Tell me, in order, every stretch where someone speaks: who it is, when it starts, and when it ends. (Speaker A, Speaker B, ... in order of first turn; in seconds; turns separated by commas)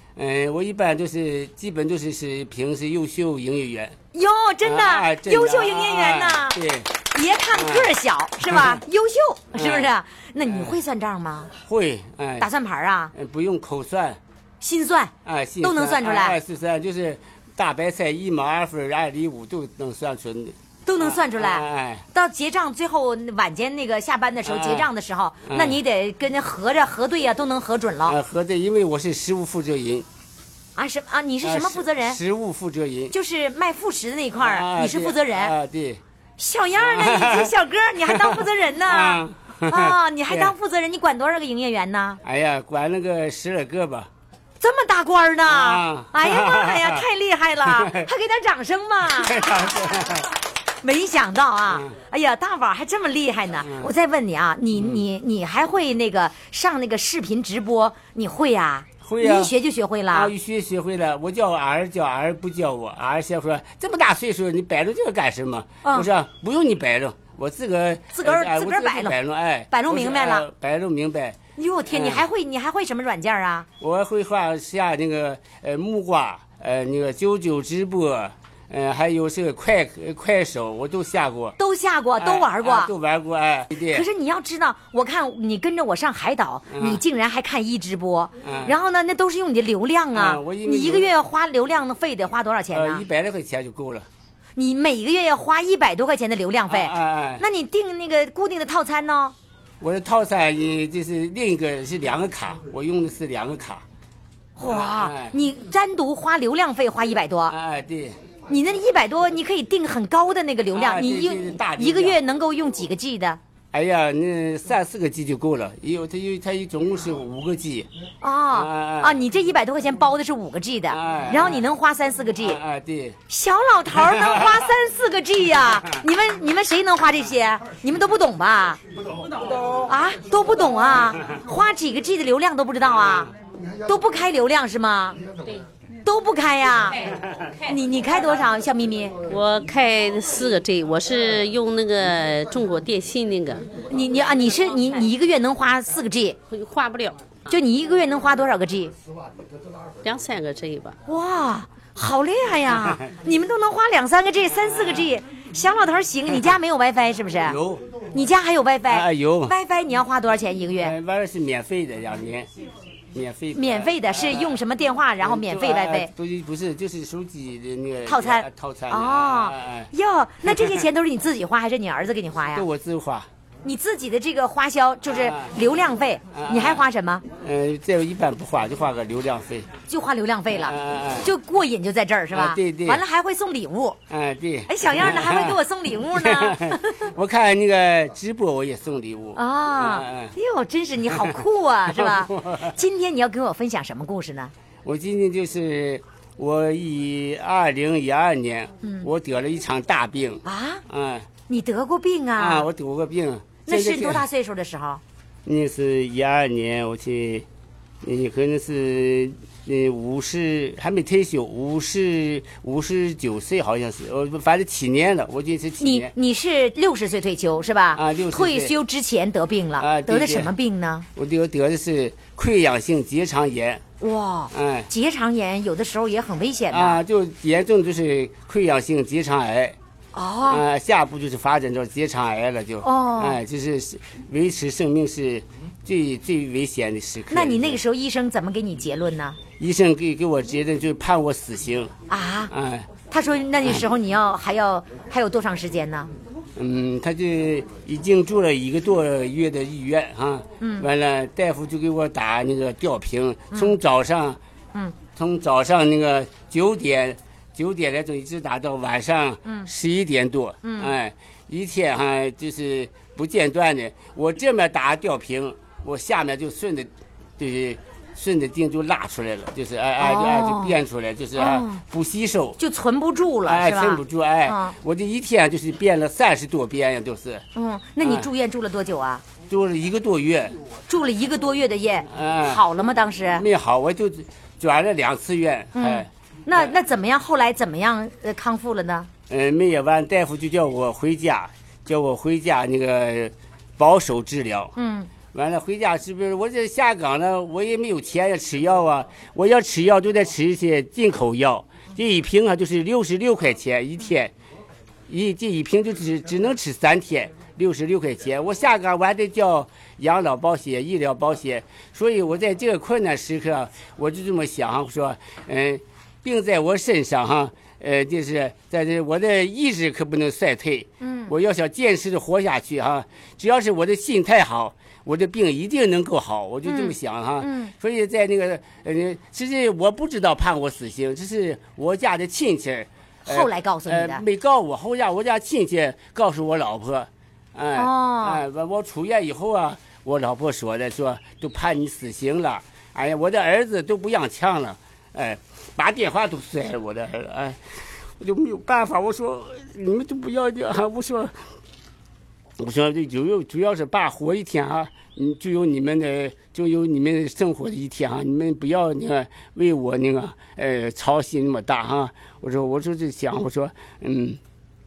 Speaker A: 0.1-4.0, Speaker B: 4.1-6.6, Speaker A: 4.6-6.9, Speaker B: 7.1-11.5, Speaker A: 7.5-7.9, Speaker A: 8.5-8.8, Speaker A: 9.5-9.9, Speaker A: 10.4-10.8, Speaker A: 11.6-12.5, Speaker B: 12.4-13.1, Speaker A: 13.1-14.2, Speaker B: 14.6-16.4, Speaker A: 15.2-22.0, Speaker B: 20.9-28.1, Speaker A: 24.4-24.9, Speaker A: 25.5-25.8, Speaker A: 28.0-30.1, Speaker B: 30.8-32.2, Speaker A: 31.4-33.1, Speaker B: 33.1-35.5, Speaker A: 34.4-36.0, Speaker B: 36.4-42.2, Speaker A: 36.8-40.5, Speaker A: 42.2-44.1, Speaker B: 44.6-49.6, Speaker A: 45.4-47.0, Speaker A: 47.6-48.1, Speaker A: 49.2-50.3, Speaker B: 50.8-60.3, Speaker A: 53.6-53.9, Speaker A: 54.7-55.0, Speaker A: 59.0-59.5, Speaker A: 60.1-72.2, Speaker B: 68.1-69.2, Speaker B: 69.7-70.4, Speaker B: 71.6-73.7, Speaker A: 73.8-81.6, Speaker B: 81.6-82.9, Speaker A: 82.2-84.1, Speaker B: 83.9-93.0, Speaker A: 86.7-87.0, Speaker A: 88.4-88.7, Speaker A: 90.1-91.1, Speaker A: 92.7-94.1, Speaker B: 94.5-99.3, Speaker A: 96.7-97.4, Speaker A: 99.8-103.8, Speaker B: 104.6-107.5, Speaker A: 104.6-105.3, Speaker A: 107.5-108.2, Speaker B: 108.5-113.4, Speaker A: 110.7-112.2, Speaker A: 113.7-117.9, Speaker B: 118.2-122.6, Speaker A: 118.5-119.2, Speaker A: 120.9-121.6, Speaker A: 122.4-123.2, Speaker B: 123.3-128.8, Speaker A: 123.9-124.6, Speaker B: 129.8-133.3, Speaker A: 132.9-133.3, Speaker B: 133.8-135.2, Speaker B: 136.0-137.0, Speaker B: 137.7-139.1, Speaker C: 139.3-143.6, Speaker B: 143.9-146.4, Speaker C: 146.5-147.2, Speaker B: 147.5-148.9, Speaker C: 150.0-151.0, Speaker B: 151.1-157.6, Speaker A: 152.7-153.1, Speaker A: 154.7-155.1, Speaker A: 157.4-157.8, Speaker B: 158.1-160.9, Speaker A: 158.9-159.5, Speaker A: 160.8-162.5, Speaker A: 163.1-164.6, Speaker B: 163.5-166.1, Speaker A: 165.2-169.9, Speaker B: 168.1-172.6, Speaker A: 170.4-170.8, Speaker A: 172.5-173.3, Speaker B: 173.6-177.2, Speaker A: 175.1-175.5, Speaker A: 176.3-176.8, Speaker A: 177.4-179.7, Speaker B: 179.9-184.0, Speaker A: 180.5-181.3, Speaker A: 182.3-183.0, Speaker A: 184.1-190.3, Speaker B: 184.7-187.1, Speaker B: 189.3-194.5, Speaker A: 191.1-192.7, Speaker A: 194.8-201.3, Speaker B: 198.8-199.1, Speaker B: 200.4-200.8, Speaker B: 201.5-202.7, Speaker A: 202.4-204.2, Speaker B: 203.7-205.0, Speaker A: 205.4-207.4, Speaker A: 208.0-216.1, Speaker B: 215.8-221.1, Speaker A: 217.9-218.7, Speaker A: 219.8-220.5, Speaker A: 221.2-223.8, Speaker B: 224.0-227.0, Speaker A: 224.5-224.9, Speaker A: 226.7-229.8, Speaker B: 230.1-230.6, Speaker A: 230.5-237.8, Speaker B: 232.8-233.4, Speaker B: 237.3-239.4, Speaker A: 239.6-241.9, Speaker B: 242.1-242.5, Speaker A: 242.5-242.9, Speaker B: 243.1-246.1, Speaker A: 246.6-254.4, Speaker B: 250.6-250.9, Speaker B: 253.5-253.8, Speaker A: 255.2-272.6, Speaker B: 260.6-260.9, Speaker B: 270.0-270.8, Speaker B: 271.4-271.8, Speaker B: 272.6-274.7, Speaker A: 273.4-277.4, Speaker B: 277.5-279.2, Speaker A: 278.0-278.3, Speaker A: 279.5-280.6, Speaker B: 280.9-283.4, Speaker A: 282.1-282.6, Speaker A: 283.4-286.7, Speaker B: 285.7-289.1, Speaker A: 289.3-294.7, Speaker B: 294.8-295.1, Speaker A: 295.3-304.3, Speaker A: 305.1-347.6, Speaker B: 321.0-321.3, Speaker B: 326.6-327.7, Speaker B: 333.2-334.2, Speaker B: 337.8-338.4, Speaker A: 348.2-351.3, Speaker A: 352.6-364.4